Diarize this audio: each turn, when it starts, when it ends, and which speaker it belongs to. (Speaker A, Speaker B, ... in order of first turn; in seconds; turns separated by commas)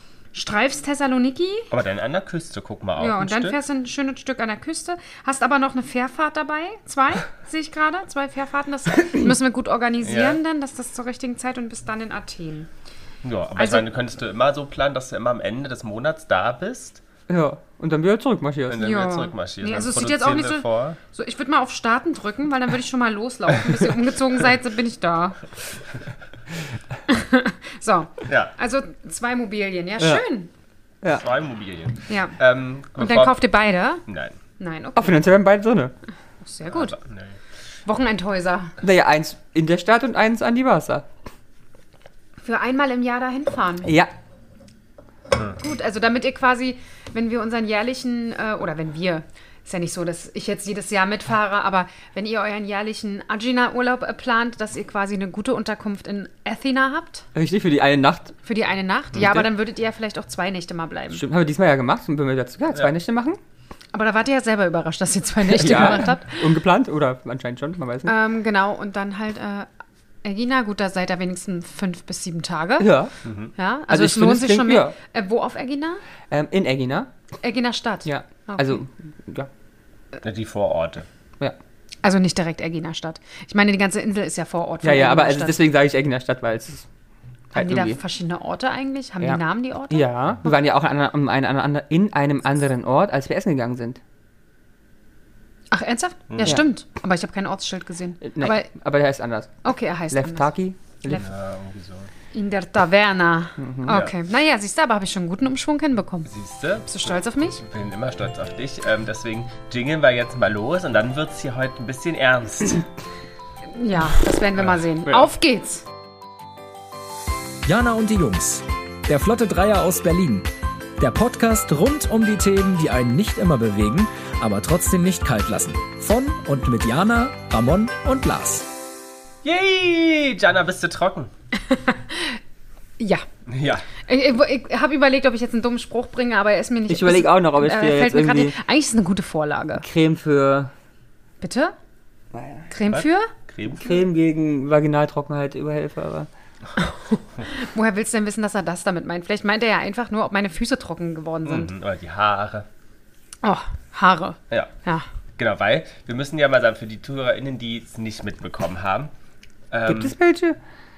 Speaker A: 0.3-1.7, Speaker B: 1.7-3.6, Speaker A: 3.0-12.7, Speaker B: 10.0-10.4, Speaker B: 13.2-17.0, Speaker A: 13.6-13.9, Speaker C: 17.3-18.8, Speaker B: 18.7-21.0, Speaker A: 18.8-25.6, Speaker A: 27.1-30.5, Speaker B: 28.3-28.5, Speaker C: 30.0-30.2, Speaker B: 31.2-33.4, Speaker A: 32.1-32.4, Speaker A: 33.0-34.0, Speaker B: 34.1-34.4, Speaker A: 34.6-35.3, Speaker C: 35.0-35.9, Speaker A: 36.4-36.9, Speaker B: 36.7-37.4, Speaker A: 37.9-38.8, Speaker C: 38.8-41.0, Speaker A: 42.4-43.9, Speaker C: 43.8-44.1, Speaker A: 45.6-57.2, Speaker C: 57.3-58.3, Speaker A: 58.4-61.2, Speaker C: 59.2-59.4, Speaker C: 61.1-63.4, Speaker A: 63.9-66.4, Speaker C: 65.5-68.1, Speaker A: 68.0-69.7, Speaker A: 70.2-72.9, Speaker C: 72.8-73.1, Speaker B: 73.2-73.5, Speaker A: 73.6-76.0, Speaker C: 73.9-74.9, Speaker C: 76.3-77.1, Speaker A: 77.4-78.8, Speaker C: 78.0-79.5, Speaker B: 80.2-81.1, Speaker A: 82.0-85.6, Speaker C: 84.8-86.8, Speaker C: 87.5-88.0, Speaker A: 87.5-90.5, Speaker C: 89.2-94.0, Speaker A: 95.7-98.7, Speaker B: 96.3-96.6, Speaker C: 98.2-99.5, Speaker A: 99.6-100.5, Speaker C: 100.1-101.2, Speaker B: 101.1-102.1, Speaker A: 102.3-106.3, Speaker C: 103.6-104.0, Speaker B: 103.9-104.1, Speaker B: 106.2-112.8, Speaker A: 106.8-107.6, Speaker A: 113.7-115.8, Speaker B: 114.6-115.3, Speaker D: 117.6-128.7, Speaker B: 129.4-131.3, Speaker A: 131.7-132.4, Speaker A: 133.0-133.2, Speaker B: 133.5-133.8, Speaker A: 134.1-139.8, Speaker C: 136.9-138.5, Speaker C: 139.8-140.7, Speaker A: 141.4-141.7, Speaker C: 142.3-142.7, Speaker A: 142.7-143.3, Speaker B: 142.9-144.0, Speaker C: 143.8-146.3, Speaker A: 146.8-151.7, Speaker B: 151.4-152.7, Speaker A: 153.4-155.0, Speaker B: 155.4-159.1, Speaker B: 159.7-160.1, Speaker C: 159.8-160.6